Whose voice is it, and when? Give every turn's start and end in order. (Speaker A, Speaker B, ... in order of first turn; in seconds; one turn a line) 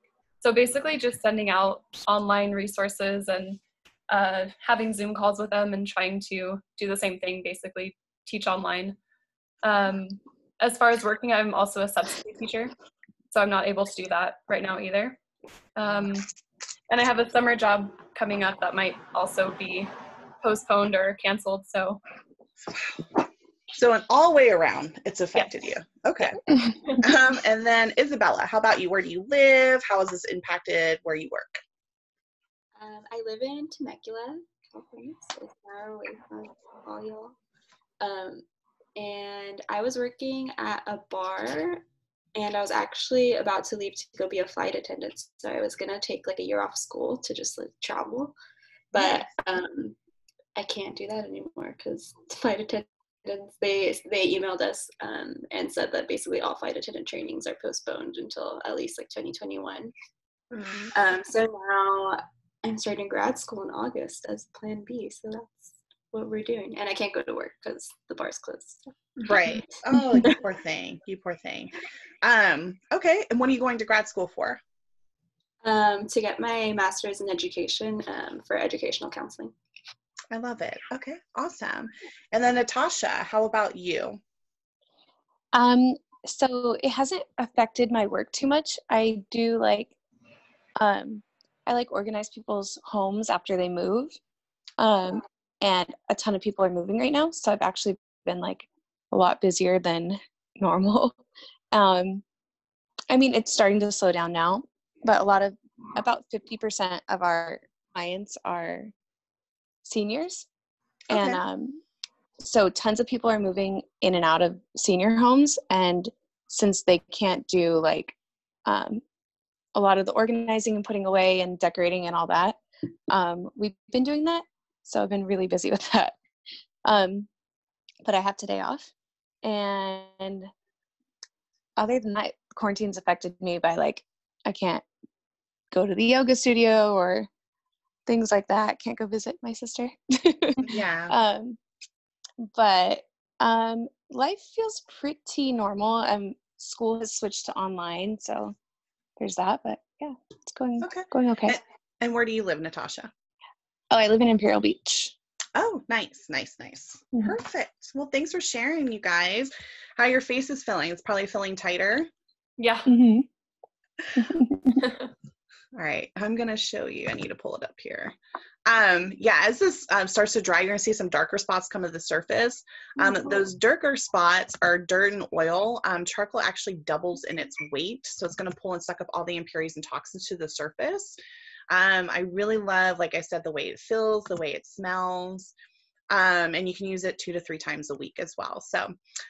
Speaker A: 0.4-9.0
Speaker A: 9.6-12.7
Speaker A: 13.3-15.2
Speaker A: 15.8-16.3
Speaker A: 16.9-22.0
Speaker B: 22.7-23.1
Speaker B: 23.7-26.4
Speaker B: 27.0-31.6
Speaker C: 32.8-37.4
Speaker C: 38.0-38.4
Speaker C: 39.0-48.3
Speaker C: 48.9-50.0
Speaker B: 49.0-49.2
Speaker C: 50.5-59.9
Speaker B: 60.5-60.9
Speaker C: 60.9-70.4
Speaker B: 69.2-74.6
Speaker C: 75.6-79.5
Speaker B: 80.3-84.2
Speaker D: 85.5-89.9
Speaker D: 90.8-94.2
Speaker D: 94.8-101.2
Speaker D: 101.7-102.2
Speaker D: 103.1-108.9
Speaker D: 109.8-110.5
Speaker B: 111.1-111.4
Speaker D: 111.1-111.8
Speaker D: 112.4-119.0
Speaker D: 119.7-122.6
Speaker D: 123.1-126.2
Speaker D: 126.8-127.3
Speaker D: 128.0-128.9
Speaker D: 129.4-130.5
Speaker D: 131.8-134.8
Speaker D: 135.7-137.3
Speaker D: 138.1-141.6
Speaker B: 140.6-141.1
Speaker D: 142.4-148.5
Speaker D: 149.2-151.6
Speaker B: 150.8-153.1
Speaker D: 153.9-155.1
Speaker B: 155.5-162.1
Speaker A: 162.6-162.9
Speaker D: 162.8-163.2
Speaker D: 164.2-164.8
Speaker B: 165.7-181.2
Speaker B: 181.7-185.5
Speaker B: 186.1-188.9